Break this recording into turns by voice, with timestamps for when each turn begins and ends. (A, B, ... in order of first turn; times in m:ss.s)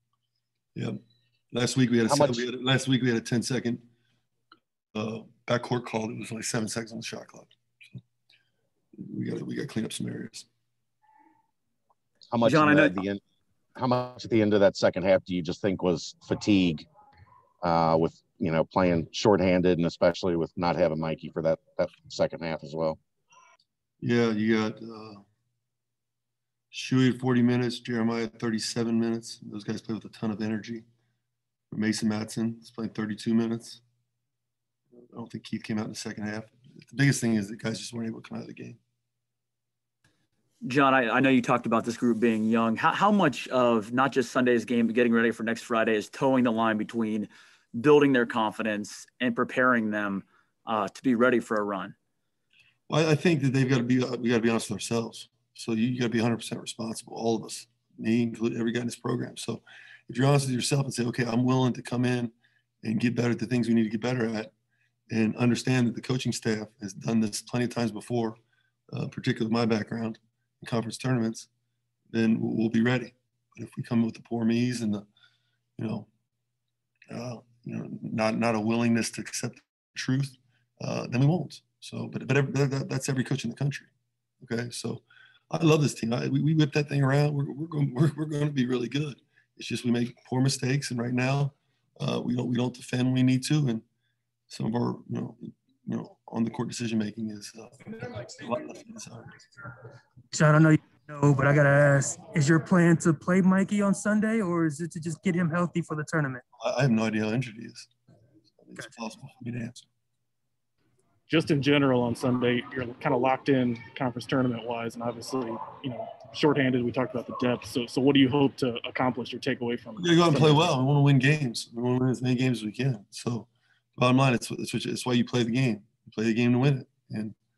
0:01.5-0:03.8 A
0:02.1-0:02.4 B
0:05.0-0:08.0 A
0:09.0-0:10.5 A
0:12.3-0:13.2 B
0:12.4-0:13.0 C
0:13.8-0:16.9 B
0:17.6-0:23.0 B
0:24.0-0:25.2 A
0:26.7-0:30.8 A
0:31.7-0:33.8 A
0:35.0-0:38.8 A
0:40.6-0:52.0 C
0:52.9-1:02.3 A
1:02.8-1:04.5 A
1:05.1-1:08.4 A
1:08.9-1:11.5 A
1:12.1-1:15.1 A
1:15.8-1:16.1 A
1:17.1-1:23.9 A
1:24.4-1:33.8 A
1:34.5-1:39.3 A
1:40.3-1:46.4 D
1:46.6-1:47.9 A
1:48.6-1:49.9 A
1:51.3-2:00.7 E
2:00.0-2:07.4 A